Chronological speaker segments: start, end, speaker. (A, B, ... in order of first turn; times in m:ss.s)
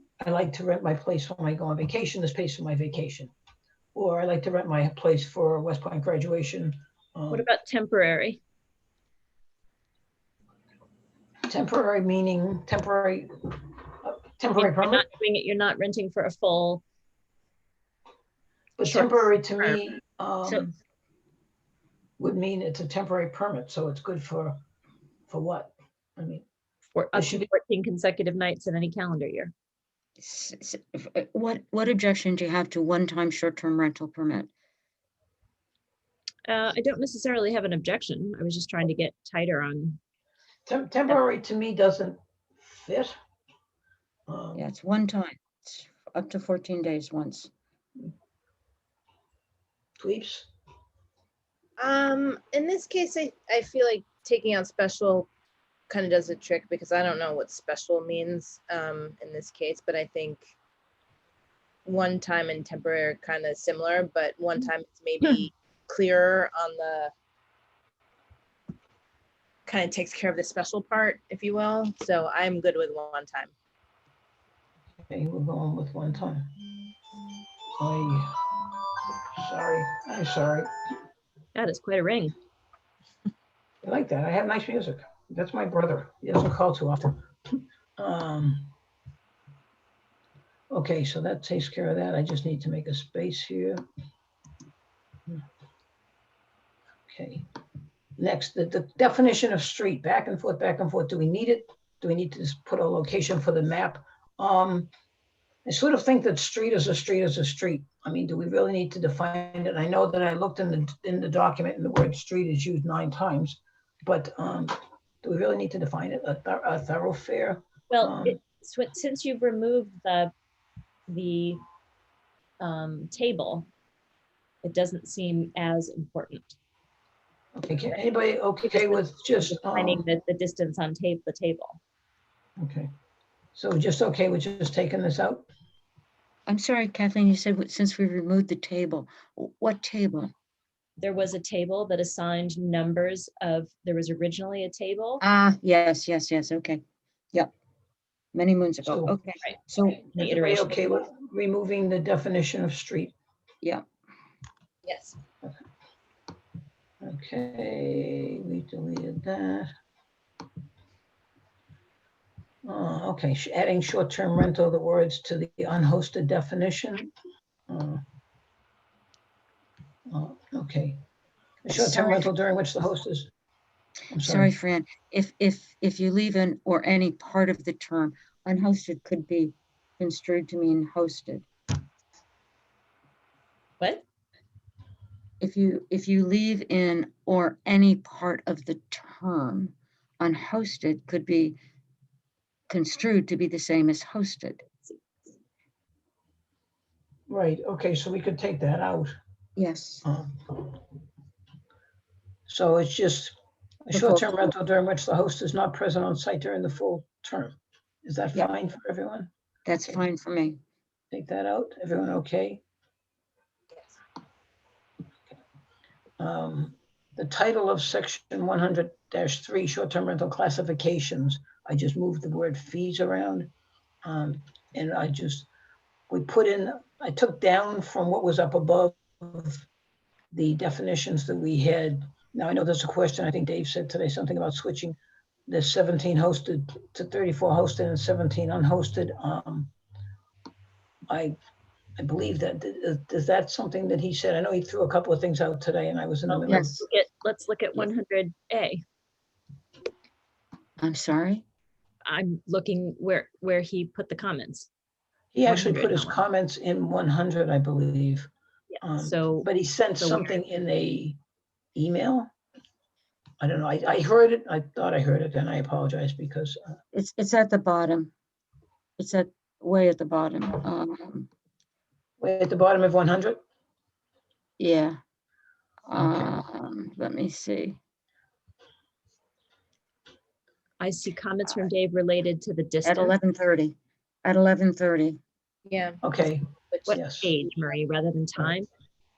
0:00.2-0:03.3 A
0:04.0-0:07.5 A
0:07.3-0:08.4 B
0:11.5-0:13.3 A
0:14.0-0:15.0 A
0:14.6-0:16.8 B
0:18.8-0:20.7 A
0:18.9-0:19.6 B
0:22.2-0:24.6 A
0:25.3-0:26.4 A
0:27.0-0:29.5 B
0:27.1-0:27.5 A
0:30.2-0:34.5 C
0:36.5-0:40.0 B
0:40.7-0:43.2 A
0:44.3-0:44.6 A
0:44.6-0:47.5 C
0:50.0-0:50.5 A
0:51.8-0:55.3 D
0:55.9-1:00.5 D
1:01.9-1:07.1 D
1:09.7-1:13.5 D
1:15.1-1:16.5 A
1:17.8-1:18.3 A
1:19.4-1:20.7 A
1:21.6-1:22.4 B
1:23.8-1:27.3 A
1:28.0-1:28.7 A
1:30.7-1:33.8 A
1:37.1-1:37.5 A
1:38.2-1:44.9 A
1:45.7-1:58.4 A
1:57.9-2:00.3 B
2:01.1-2:01.6 B
2:02.6-2:03.7 B
2:04.6-2:06.6 B
2:07.6-2:10.0 A
2:08.6-2:11.8 B
2:12.6-2:12.9 A
2:13.6-2:15.5 A
2:16.5-2:20.3 C
2:21.0-2:25.2 B
2:25.2-2:26.8 C
2:28.3-2:30.0 C
2:28.9-2:29.1 A
2:29.4-2:31.0 B
2:30.1-2:33.2 A
2:34.8-2:35.2 D
2:37.0-2:39.7 A
2:42.6-2:47.1 A
2:47.7-2:48.0 A
2:50.1-2:51.0 A
2:51.6-2:53.3 A
2:51.7-2:52.3 C
2:54.1-2:54.5 A
2:54.2-3:01.5 C
3:05.4-3:11.6 C
3:12.7-3:14.6 C
3:17.3-3:19.1 A
3:19.6-3:20.0 C
3:20.0-3:20.7 A
3:22.5-3:23.4 A
3:23.9-3:29.3 A
3:23.9-3:24.5 C
3:29.7-3:30.6 C
3:31.1-3:32.6 A
3:36.2-3:43.5 A
3:44.0-3:45.5 A
3:46.1-3:49.7 A
3:50.3-3:55.0 A
3:55.5-3:59.7 A
4:01.1-4:01.4 A
4:02.0-4:06.8 A
4:06.3-4:08.8 B
4:06.5-4:06.8 C
4:10.8-4:11.4 C
4:12.0-4:14.7 B
4:15.3-4:18.3 A
4:15.5-4:16.2 B
4:18.7-4:19.5 B
4:18.8-4:21.2 A
4:20.0-4:20.4 B
4:21.8-4:22.3 A
4:23.4-4:26.6 A
4:26.9-4:28.1 C
4:29.0-4:31.3 C
4:32.2-4:33.4 A
4:34.6-4:35.0 C
4:35.9-4:37.8 C
4:36.0-4:36.3 A
4:40.8-4:43.2 B
4:42.8-4:45.2 C
4:45.7-4:47.0 D
4:46.0-4:47.3 A
4:46.9-4:48.7 B